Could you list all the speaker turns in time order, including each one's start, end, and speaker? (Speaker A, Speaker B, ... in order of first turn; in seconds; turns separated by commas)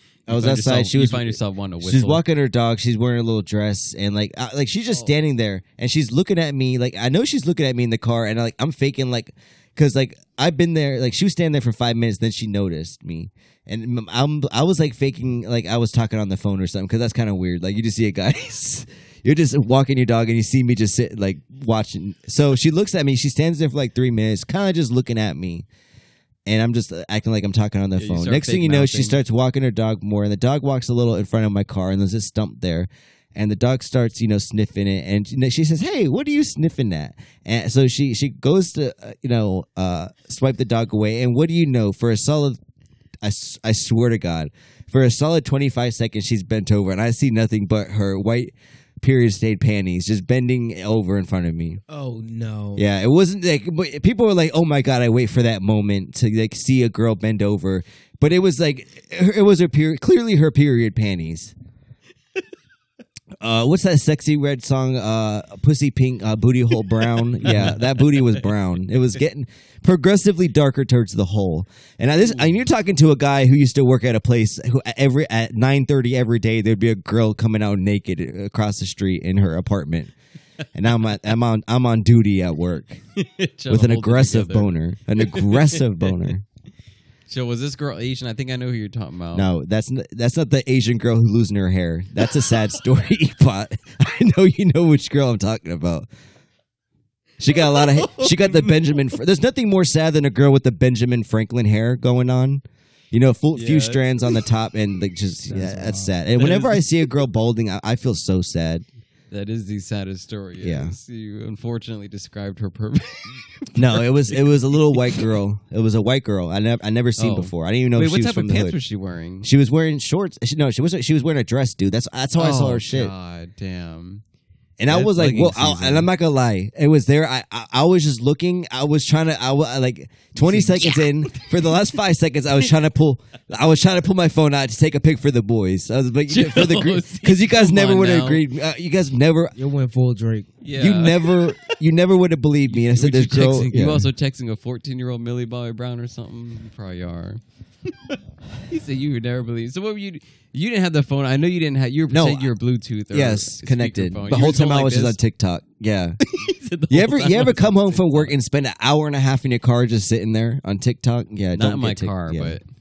Speaker A: 0.3-2.2, Speaker B: 0.3-25.7, Speaker B: 26.5-42.6, Speaker A: 28.0-29.2, Speaker B: 43.2-51.8, Speaker C: 51.9-52.9, Speaker B: 52.8-61.5, Speaker B: 63.4-80.1, Speaker A: 67.4-68.5, Speaker B: 80.7-83.0, Speaker A: 83.2-86.3, Speaker B: 83.7-86.4, Speaker A: 87.3-89.5, Speaker B: 89.3-96.1, Speaker B: 97.4-108.8, Speaker A: 97.6-98.9, Speaker A: 103.5-104.0, Speaker C: 105.5-106.1, Speaker A: 106.4-106.8, Speaker A: 109.3-115.3, Speaker B: 110.6-111.0, Speaker B: 113.8-118.8, Speaker A: 117.2-119.5, Speaker B: 119.4-123.1, Speaker A: 122.4-124.2, Speaker B: 124.8-139.6, Speaker A: 124.9-126.1, Speaker A: 130.4-131.8, Speaker A: 136.3-138.4, Speaker C: 139.6-140.5, Speaker A: 140.6-141.8, Speaker B: 140.8-144.1, Speaker A: 142.7-147.4, Speaker A: 148.7-155.2, Speaker B: 152.1-152.5, Speaker B: 153.1-156.2, Speaker A: 156.2-158.3, Speaker B: 156.9-162.6, Speaker A: 161.6-162.6